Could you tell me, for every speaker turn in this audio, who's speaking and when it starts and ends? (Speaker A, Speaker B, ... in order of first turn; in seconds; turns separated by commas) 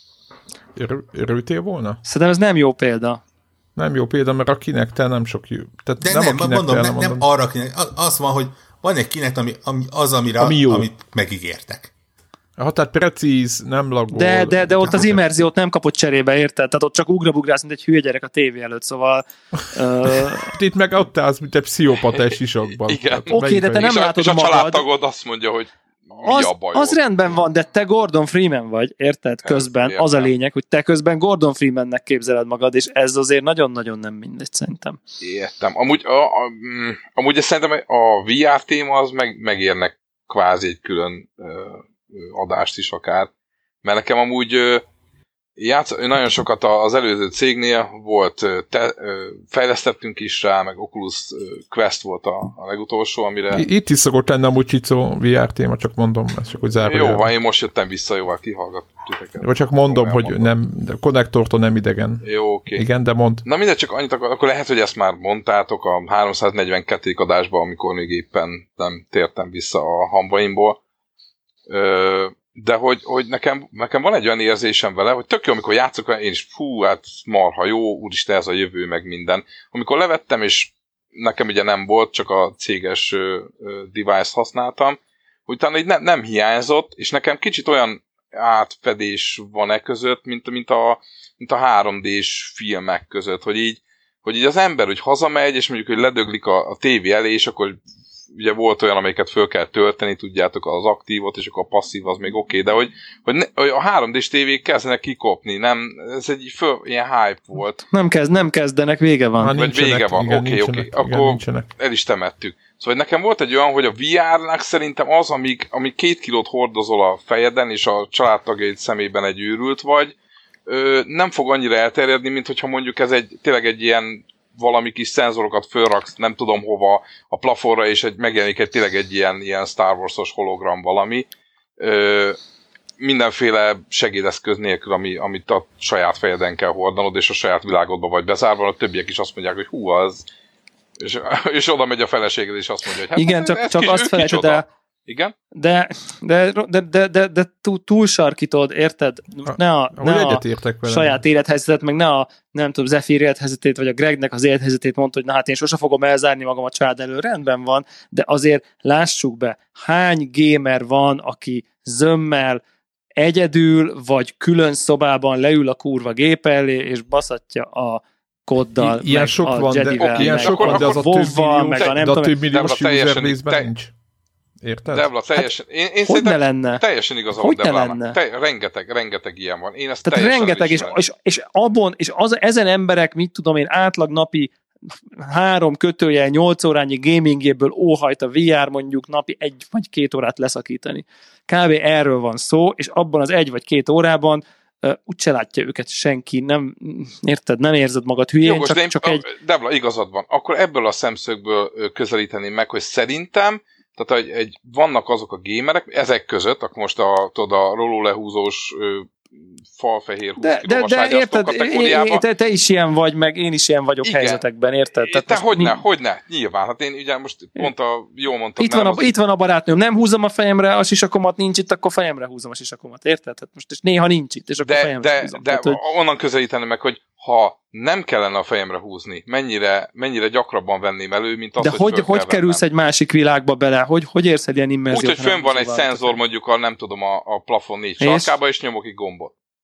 Speaker A: 0.7-2.0, Speaker B: 2.0-3.2, Speaker A: 3.8-7.2, Speaker C: 6.0-11.9, Speaker A: 10.4-10.9, Speaker A: 12.6-15.2, Speaker B: 14.1-20.5, Speaker A: 20.2-23.9, Speaker D: 22.9-27.0, Speaker B: 23.3-24.9, Speaker B: 26.2-35.0, Speaker D: 29.4-30.3, Speaker D: 35.2-43.3, Speaker D: 43.8-44.8, Speaker D: 45.6-53.6, Speaker A: 53.5-57.3, Speaker D: 56.8-60.5, Speaker A: 59.4-63.4, Speaker D: 62.2-62.8, Speaker D: 63.4-70.8, Speaker D: 71.7-97.8, Speaker D: 98.3-107.8, Speaker B: 107.9-109.6, Speaker A: 109.4-111.7, Speaker D: 109.5-120.1, Speaker D: 120.7-131.3, Speaker D: 131.8-132.4, Speaker D: 133.0-140.2, Speaker D: 141.0-145.3, Speaker B: 143.2-144.6, Speaker B: 145.5-162.6, Speaker A: 149.5-151.2, Speaker B: 163.2-172.3, Speaker A: 168.8-173.9, Speaker D: 170.0-171.9, Speaker D: 172.5-173.7, Speaker A: 174.6-175.1, Speaker D: 174.9-181.0, Speaker B: 176.1-176.8, Speaker B: 177.4-178.2, Speaker B: 180.0-199.2, Speaker D: 198.4-212.2, Speaker B: 210.4-215.8, Speaker D: 214.0-214.4, Speaker D: 215.0-219.1, Speaker B: 218.6-225.8, Speaker D: 224.6-232.6, Speaker B: 231.6-236.1, Speaker D: 234.9-239.3, Speaker B: 238.0-238.3